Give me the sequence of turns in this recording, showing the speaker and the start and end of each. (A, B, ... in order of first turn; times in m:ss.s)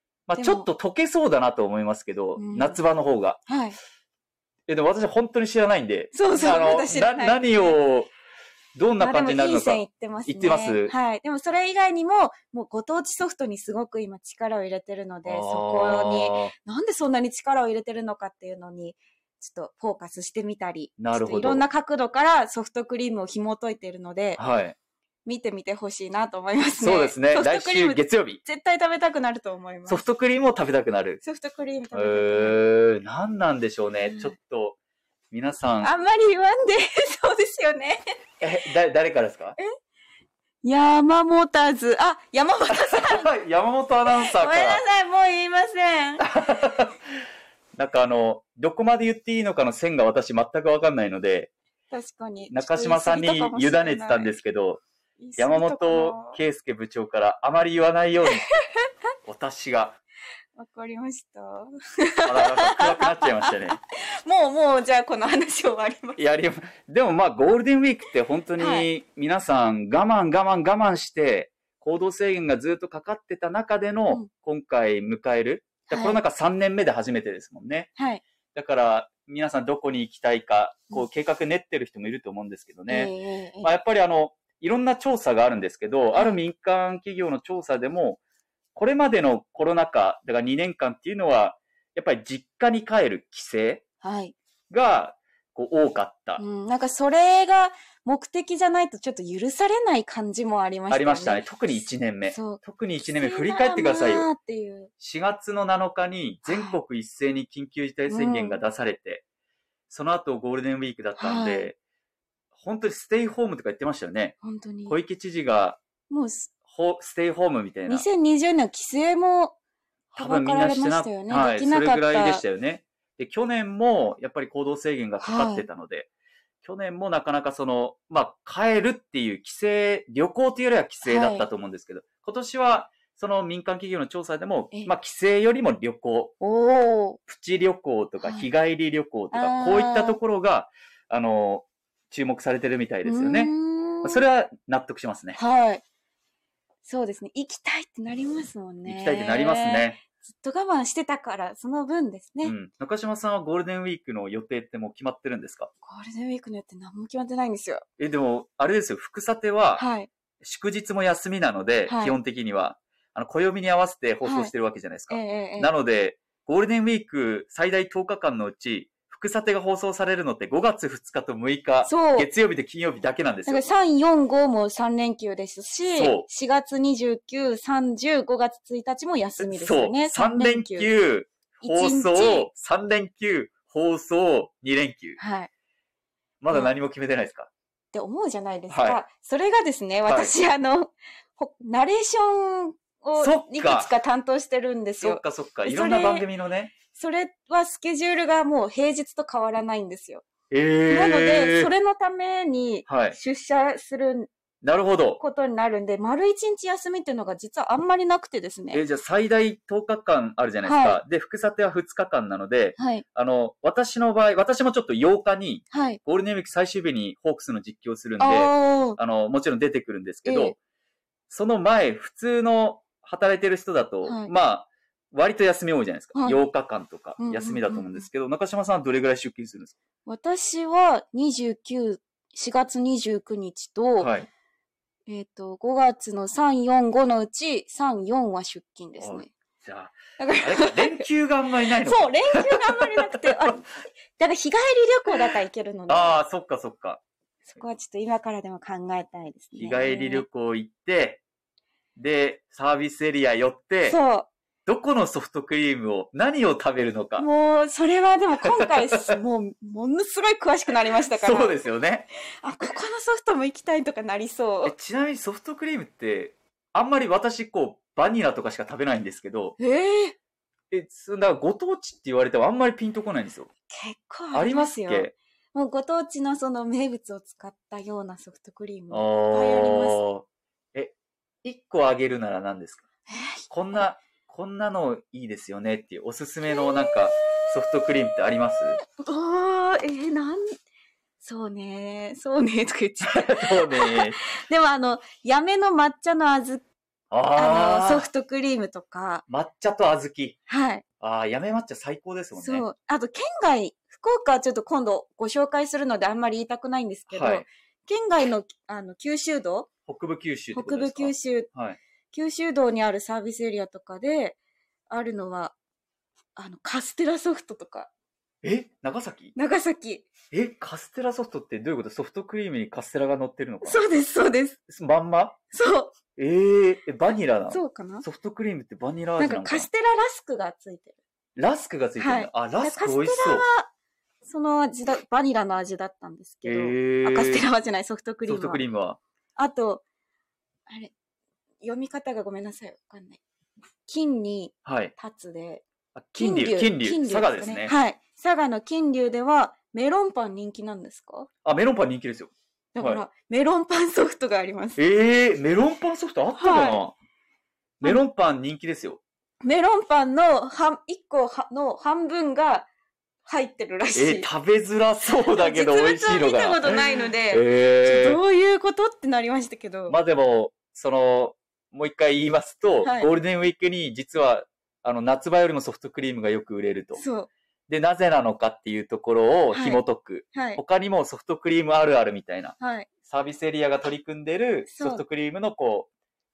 0:00.3-0:03.4 A
0:00.3-0:00.7 B
0:02.4-0:02.8 B
0:03.4-0:03.8 B
0:04.7-0:08.1 A
0:06.1-0:07.8 B
0:08.7-0:10.9 A
0:09.0-0:24.4 B
0:15.2-0:16.5 A
0:21.0-0:21.6 A
0:24.4-0:24.8 A
0:25.2-0:30.0 B
0:26.8-0:28.4 A
0:29.9-0:31.2 A
0:31.2-0:32.6 B
0:31.9-0:34.8 A
0:34.0-0:34.3 B
0:35.3-0:35.9 A
0:35.8-0:38.1 B
0:38.4-0:39.6 A
0:40.6-0:43.3 B
0:42.8-0:44.8 A
0:44.1-0:46.3 B
0:46.2-0:47.0 A
0:47.8-0:51.5 A
0:51.9-0:54.4 B
0:52.5-0:54.8 A
0:55.2-0:56.4 B
0:55.4-0:58.4 A
0:59.2-1:00.0 A
1:00.6-1:06.2 B
1:02.2-1:03.8 A
1:06.2-1:17.9 A
1:08.6-1:08.9 B
1:15.9-1:16.2 B
1:18.0-1:18.2 B
1:18.5-1:28.2 A
1:22.9-1:23.7 B
1:28.7-1:33.8 A
1:34.0-1:34.3 B
1:34.7-1:36.4 A
1:36.4-1:41.7 B
1:40.9-1:44.3 A
1:42.3-1:44.9 B
1:45.0-1:49.2 A
1:46.4-1:46.8 B
1:48.1-1:48.6 B
1:49.9-1:51.8 A
1:51.2-1:51.7 B
1:52.6-1:54.4 A
1:54.4-1:55.0 B
1:54.9-1:55.8 A
1:56.1-1:56.5 B
1:56.7-1:58.1 A
1:57.9-1:59.6 B
2:00.1-2:06.1 A
2:00.1-2:02.4 B
2:05.2-2:05.6 B
2:06.6-2:16.3 A
2:11.0-2:11.5 B
2:16.4-2:17.2 B
2:17.2-2:23.5 A
2:18.2-2:18.5 B
2:19.3-2:20.2 B
2:23.0-2:24.2 B
2:24.0-2:25.4 A
2:25.3-2:25.8 B
2:26.8-2:32.5 B
2:28.8-2:30.0 A
2:32.4-2:35.7 A
2:35.8-2:37.8 B
2:38.0-2:39.8 A
2:39.8-2:40.1 B
2:40.4-2:53.7 A
2:41.9-2:42.2 B
2:44.2-2:44.5 B
2:45.1-2:45.7 B
2:51.8-2:52.3 B
2:53.5-3:00.9 B
2:55.9-2:56.2 A
2:59.4-3:05.2 A
3:01.6-3:02.5 B
3:05.2-3:05.5 B
3:06.4-3:07.5 A
3:07.9-3:16.3 B
3:08.7-3:09.0 A
3:10.0-3:10.3 A
3:13.2-3:13.9 A
3:15.0-3:16.7 A
3:16.9-3:20.2 B
3:20.5-3:21.7 A
3:20.9-3:24.3 B
3:22.9-3:23.2 A
3:24.6-3:25.2 A
3:25.2-3:28.8 B
3:28.7-3:40.6 A
3:30.6-3:31.0 B
3:32.8-3:33.0 B
3:35.7-3:36.0 B
3:38.2-3:39.0 B
3:40.2-3:40.5 B
3:41.3-3:49.7 A
3:44.0-3:44.3 B
3:46.1-3:46.4 B
3:47.2-3:48.0 B
3:50.0-3:54.1 B
3:54.0-3:54.3 A
3:55.1-3:59.3 B
3:59.0-4:03.5 A
4:00.2-4:01.0 B
4:01.8-4:03.6 B
4:04.2-4:06.2 B
4:05.9-4:07.0 A
4:07.5-4:10.2 B
4:09.5-4:11.2 A
4:12.0-4:14.0 A
4:13.8-4:14.3 B
4:14.6-4:17.2 A
4:17.2-4:21.6 B
4:18.4-4:18.7 A
4:21.1-4:22.1 A
4:22.4-4:24.7 B
4:24.6-4:29.6 A
4:29.6-4:30.1 B
4:30.7-4:33.5 A
4:33.7-4:40.0 B
4:34.3-4:35.1 A
4:38.9-4:40.9 A
4:41.4-4:42.9 A
4:43.1-4:43.4 B
4:43.5-4:48.8 A
4:48.9-4:50.4 B
4:51.2-4:56.6 B
4:53.1-4:54.2 A
4:57.1-4:58.1 A
4:57.3-4:59.2 B
4:59.3-5:00.4 A
5:00.5-5:00.8 B
5:01.0-5:02.6 A
5:02.4-5:09.7 B
5:07.1-5:07.4 A
5:09.9-5:11.8 A
5:10.5-5:11.5 B
5:12.1-5:14.4 B
5:14.9-5:15.5 B
5:16.4-5:17.9 B
5:18.4-5:19.3 A
5:19.3-5:20.1 B
5:20.3-5:23.8 A
5:23.6-5:24.6 B
5:24.7-5:25.4 A
5:25.5-5:26.0 B
5:26.2-5:29.7 A
5:27.5-5:28.0 B
5:29.2-5:31.0 B
5:31.4-5:33.4 A
5:32.0-5:33.7 B
5:34.2-5:38.6 B
5:36.4-5:37.4 A
5:38.2-5:39.0 A
5:39.4-5:39.8 B
5:41.6-5:43.2 B
5:43.9-5:45.6 B
5:44.6-5:44.9 A
5:45.9-5:47.7 A
5:46.2-5:51.3 B
5:51.4-5:53.0 A
5:52.7-5:54.8 B
5:54.8-5:56.9 A
5:56.4-5:56.8 B
5:57.8-5:59.0 A
5:59.4-6:02.7 B
6:03.2-6:04.3 B
6:03.9-6:08.2 A
6:05.3-6:09.9 B
6:09.9-6:17.0 A
6:12.8-6:13.1 B
6:17.0-6:17.3 B
6:17.7-6:25.9 A
6:19.5-6:19.8 B
6:20.3-6:20.6 B
6:22.6-6:22.9 B
6:24.7-6:25.0 B